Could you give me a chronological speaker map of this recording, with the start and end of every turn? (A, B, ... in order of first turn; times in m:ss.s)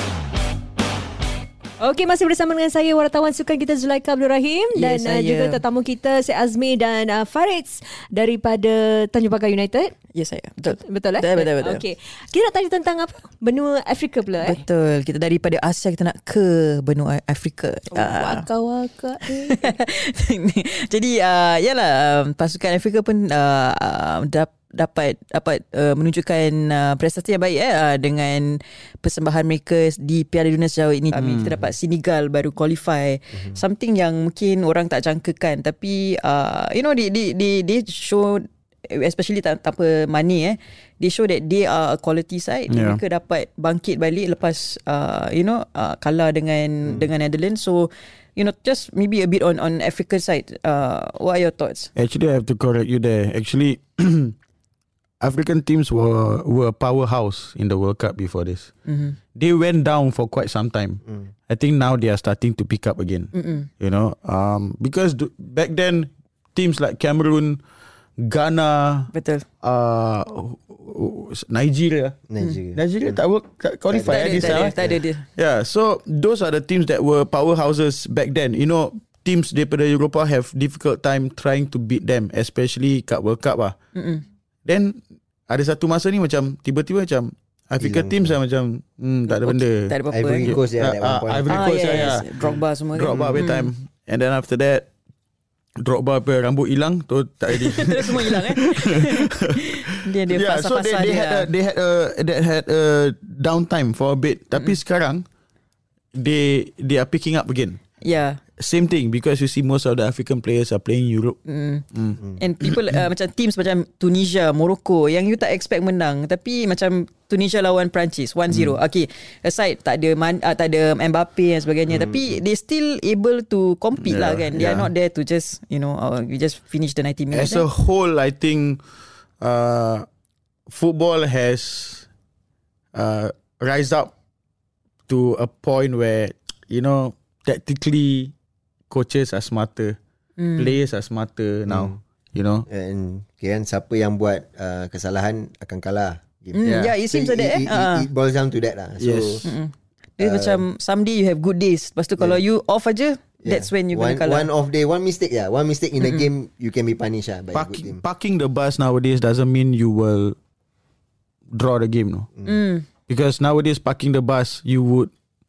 0:01.8-0:09.9 A
0:04.7-0:05.6 B
0:10.1-0:11.8 B
0:10.7-0:14.6 A
0:14.4-0:18.4 B
0:17.9-0:19.7 A
0:19.3-0:51.9 B
0:31.1-0:31.6 C
0:42.7-0:43.0 C
0:51.9-0:54.3 C
0:55.2-0:58.7 C
0:58.8-0:59.2 B
0:59.3-1:07.6 C
1:03.3-1:03.7 B
1:08.2-1:09.1 C
1:09.1-1:09.4 B
1:09.6-1:12.2 C
1:12.3-1:13.2 D
1:12.7-1:14.7 C
1:13.9-1:15.0 D
1:14.1-1:15.2 B
1:15.4-1:23.7 C
1:23.9-1:24.2 B
1:24.6-1:32.3 C
1:27.8-1:28.4 D
1:29.3-1:30.6 B
1:30.1-1:32.1 D
1:31.5-1:33.7 B
1:32.9-1:34.9 C
1:33.1-1:33.4 D
1:35.8-1:45.2 C
1:37.5-1:41.5 B
1:46.1-1:47.8 C
1:48.0-1:48.4 B
1:48.6-1:51.4 C
1:51.4-2:07.7 B
1:51.9-1:52.2 C
2:01.9-2:02.4 D
2:04.0-2:04.9 C
2:07.3-2:08.8 C
2:09.4-2:10.0 C
2:10.7-2:12.0 C
2:12.9-2:14.1 C
2:15.1-2:18.3 C
2:18.9-2:20.0 C
2:20.4-2:20.8 B
2:20.6-2:22.7 C
2:21.7-2:22.0 D
2:22.7-2:29.4 D
2:26.5-2:28.1 B
2:26.6-2:26.9 C
2:29.0-2:29.5 C
2:29.4-2:34.5 B
2:30.2-2:30.6 D
2:33.4-2:38.0 D
2:36.0-2:36.2 B
2:37.5-2:40.4 C
2:41.5-2:42.3 C
2:42.4-2:42.8 B
2:43.1-2:45.1 C